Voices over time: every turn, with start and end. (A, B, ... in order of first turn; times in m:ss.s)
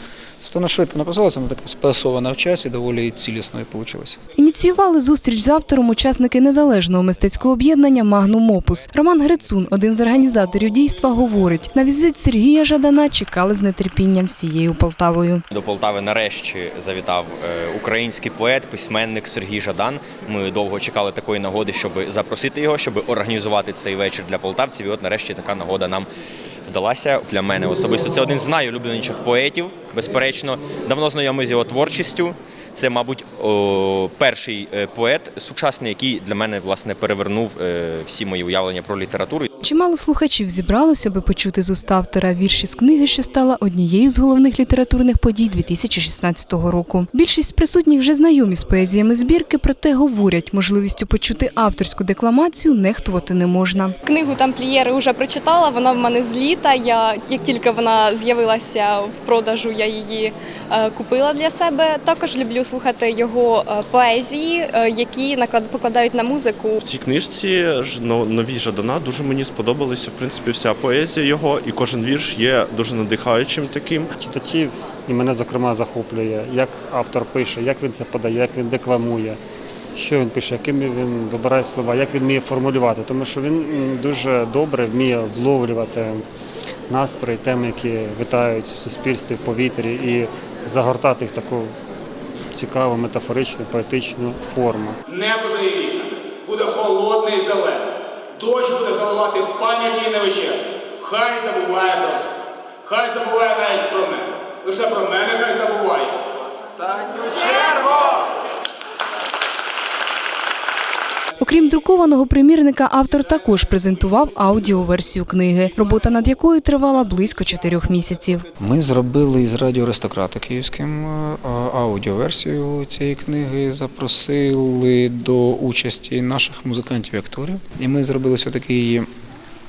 0:00.4-0:04.2 A
0:04.4-0:15.4 B
0:15.5-0:26.1 C
0:26.7-0:39.5 C
0:39.6-0:53.9 B
0:54.0-1:06.8 D
1:06.8-1:14.1 E
1:14.2-1:19.4 F
1:20.0-1:26.2 F
1:26.9-1:31.7 F
1:32.5-1:35.0 F
1:35.1-1:46.2 G
1:51.4-1:58.4 B
1:58.6-2:09.1 A